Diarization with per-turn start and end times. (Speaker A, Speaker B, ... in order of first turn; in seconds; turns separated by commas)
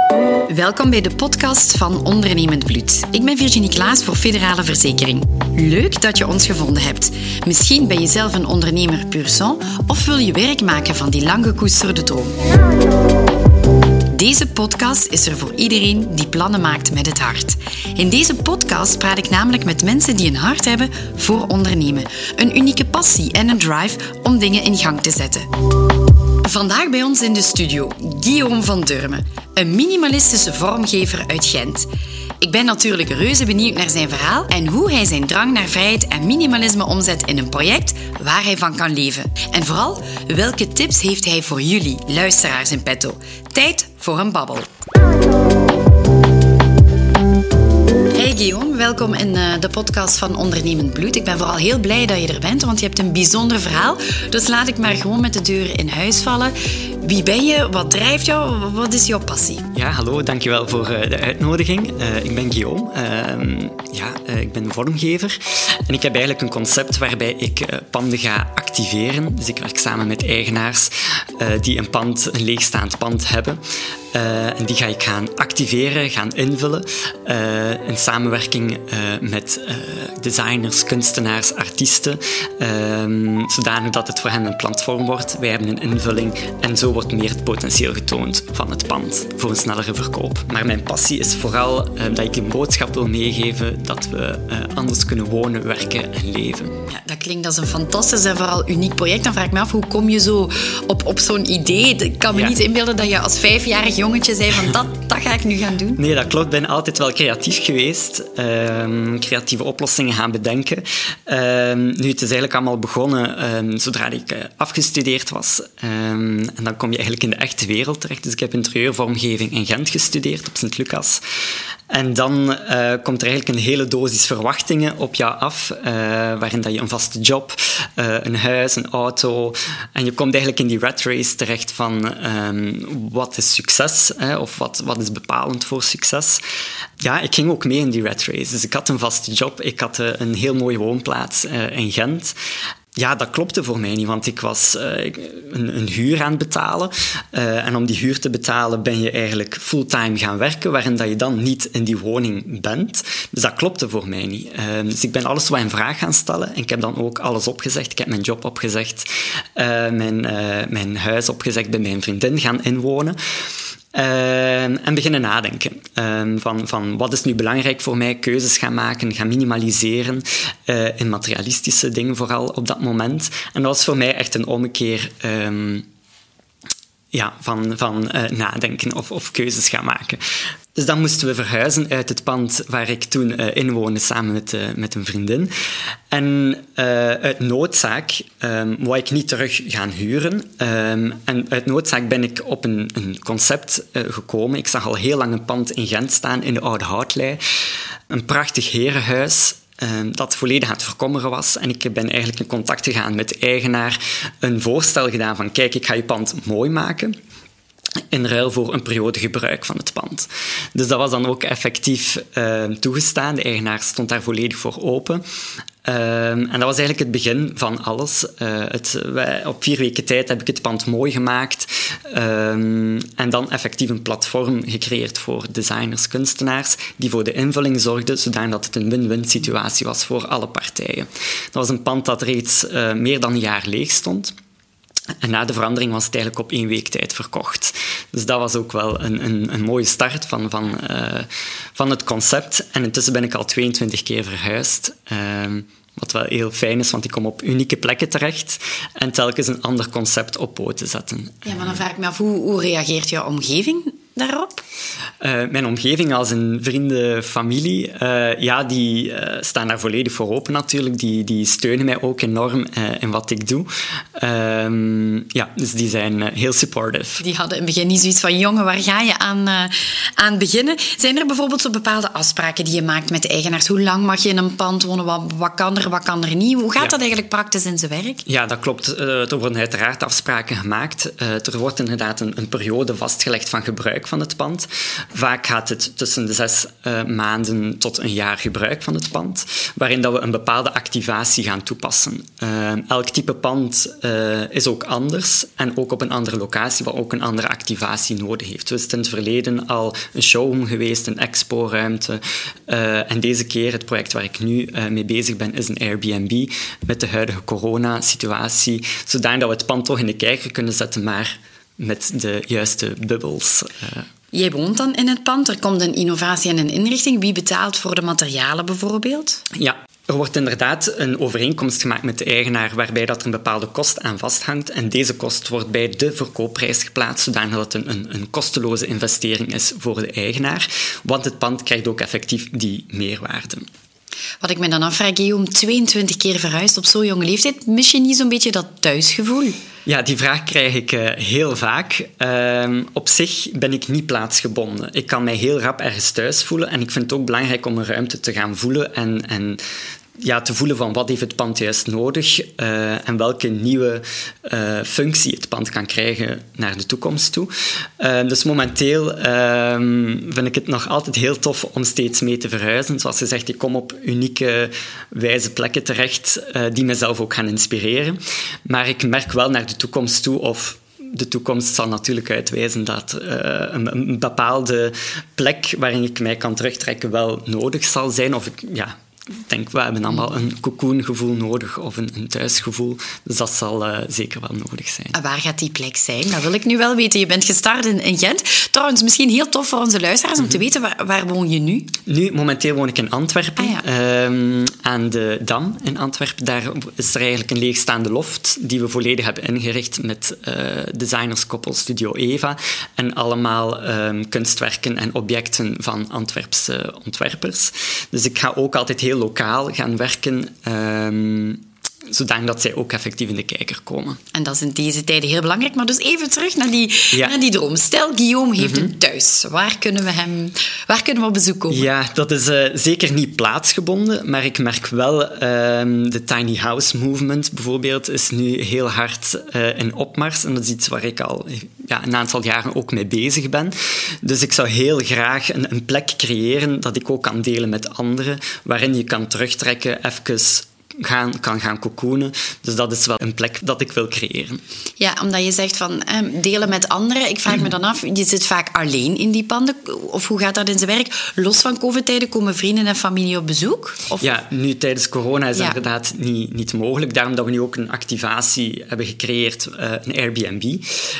Speaker A: 0.5-12.4, Speaker A: 14.1-25.5, Speaker A: 26.4-31.9, Speaker A: 32.4-44.7, Speaker A: 48.1-59.7, Speaker B: 59.7-73.6, Speaker B: 74.1-96.7, Speaker A: 96.9-106.0, Speaker B: 106.0-121.2, Speaker B: 121.9-136.4, Speaker B: 137.0-142.3, Speaker B: 143.0-163.2, Speaker B: 163.9-175.9, Speaker B: 177.1-180.2, Speaker B: 180.7-185.5, Speaker B: 186.1-197.4, Speaker B: 198.1-207.2, Speaker B: 208.1-215.2, Speaker B: 215.8-234.3, Speaker B: 235.2-251.8, Speaker A: 251.4-254.6, Speaker B: 255.2-267.2, Speaker A: 267.2-278.2, Speaker B: 278.2-314.1, Speaker A: 314.3-319.4, Speaker B: 319.5-333.6, Speaker A: 334.4-339.6, Speaker B: 339.9-349.6, Speaker B: 350.2-378.9, Speaker B: 379.5-385.1, Speaker A: 385.1-391.9, Speaker B: 392.1-414.2, Speaker A: 414.3-421.9, Speaker B: 418.6-418.9, Speaker B: 421.7-444.6, Speaker A: 445.0-454.4, Speaker B: 454.2-460.8